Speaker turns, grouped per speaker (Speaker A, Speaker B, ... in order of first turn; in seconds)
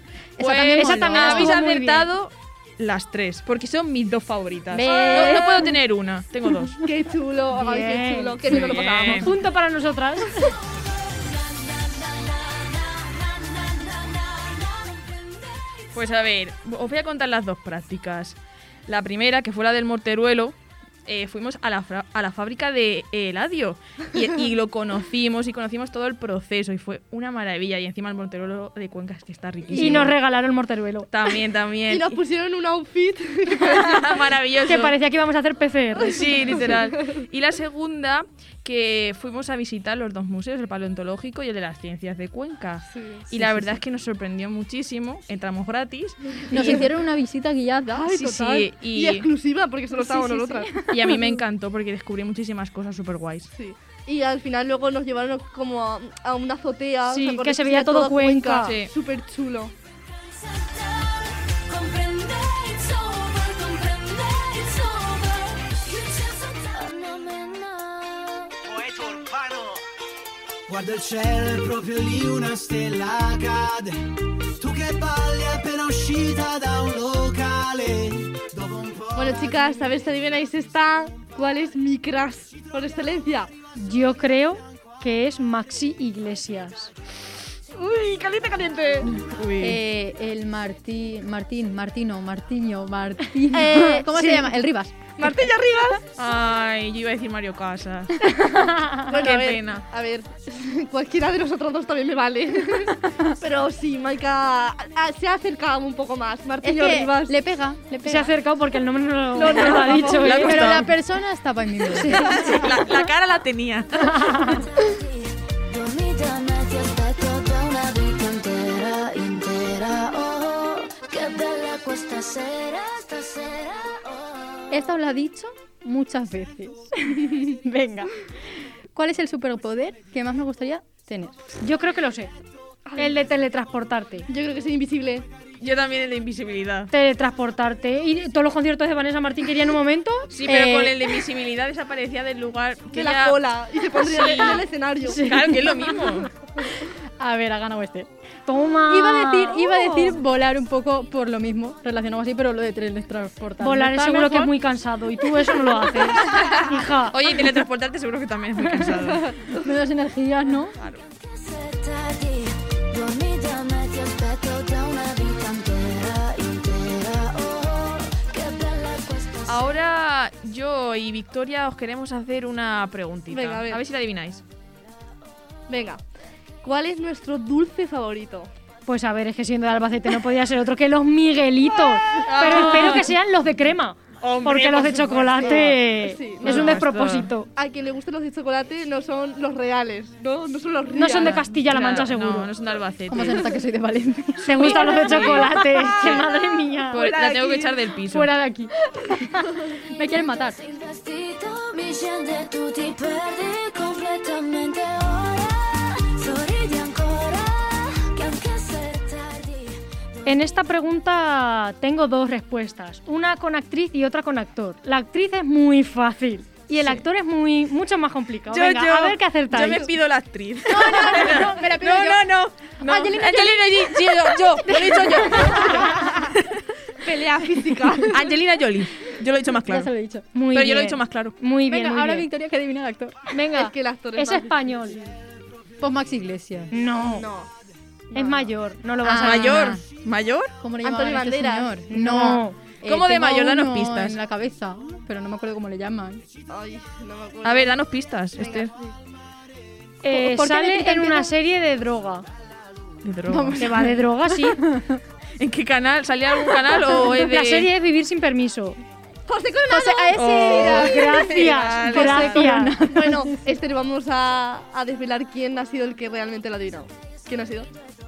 Speaker A: 0.4-1.6, 4.7-5.7, 43.4-43.8, 46.5-48.2, 50.2-51.2, 89.6-95.2, 103.1-103.3, 106.6-108.3, 110.2-112.9, 124.7-128.2, 128.9-131.4, 140.4-141.0, 147.2-148.1, 148.9-154.6, 159.5-160.8, 193.1-195.3, 199.9-200.6, 220.7-222.3, 222.8-223.1, 224.8-225.2, 229.7-230.3, 231.7-233.3, 235.8-236.7, 239.0-239.8, 240.6-246.2, 250.1-251.3, 253.3-255.0, 259.7-263.4
Speaker B: 0.4-6.8, 8.5-9.3, 15.9-30.1, 31.1-32.2, 33.5-34.9, 36.0-46.9, 48.1-49.3, 50.9-53.5, 58.6-58.9, 89.3-89.8, 96.2-98.2, 99.2-99.8, 109.5-110.9, 112.1-114.6, 135.6-136.9, 140.3-146.3, 156.3-159.3, 160.8-161.0, 169.5-174.4, 182.2-183.1, 184.2-185.7, 186.4-187.3, 191.1-193.5, 194.5-196.2, 196.9-198.3, 218.5-226.6, 228.1-229.9, 230.5-231.3, 239.2-240.5, 242.8-244.2, 247.4-248.7, 253.0-253.7, 255.4-257.7, 260.1-262.4
Speaker C: 0.8-2.1, 7.5-10.4, 29.8-31.1, 34.7-36.6, 57.1-58.7, 83.8-86.9, 94.2-94.5, 108.0-110.9, 112.0-112.5, 114.1-114.5, 131.6-132.3, 133.0-134.3, 136.9-140.3, 148.5-149.7, 153.6-157.2, 178.9-187.5, 190.9-192.5, 194.5-197.1, 198.1-198.7, 210.3-219.9, 230.3-232.3, 233.3-235.0, 236.7-237.3, 238.1-239.7, 241.9-242.6, 250.0-252.3, 253.6-254.6, 257.1-258.8, 260.6-262.8
Speaker D: 4.8-5.7, 6.8-9.3, 29.8-30.1, 31.9-34.2, 36.5-37.2, 42.9-43.2, 46.5-46.8, 47.9-50.8, 53.5-59.7, 79.2-83.5, 87.7-89.1, 93.5-94.1, 95.2-96.0, 98.9-107.3, 109.3-110.5, 132.9-133.2, 134.3-135.3, 142.9-145.3, 149.8-150.1, 173.3-173.8, 175.7-176.0, 176.6-178.5, 181.7-182.3, 185.3-186.8, 187.5-191.5, 197.0-197.8, 222.8-223.7, 225.8-226.1, 227.0-228.3, 233.5-234.9, 237.0-237.5, 238.1-238.5, 240.8-241.8, 246.5-247.8, 259.3-261.2, 262.8-267.7
Speaker E: 11.1-15.4, 60.4-68.6, 114.3-124.8, 161.1-169.7, 200.0-209.8
Speaker F: 69.0-69.6, 70.7-79.8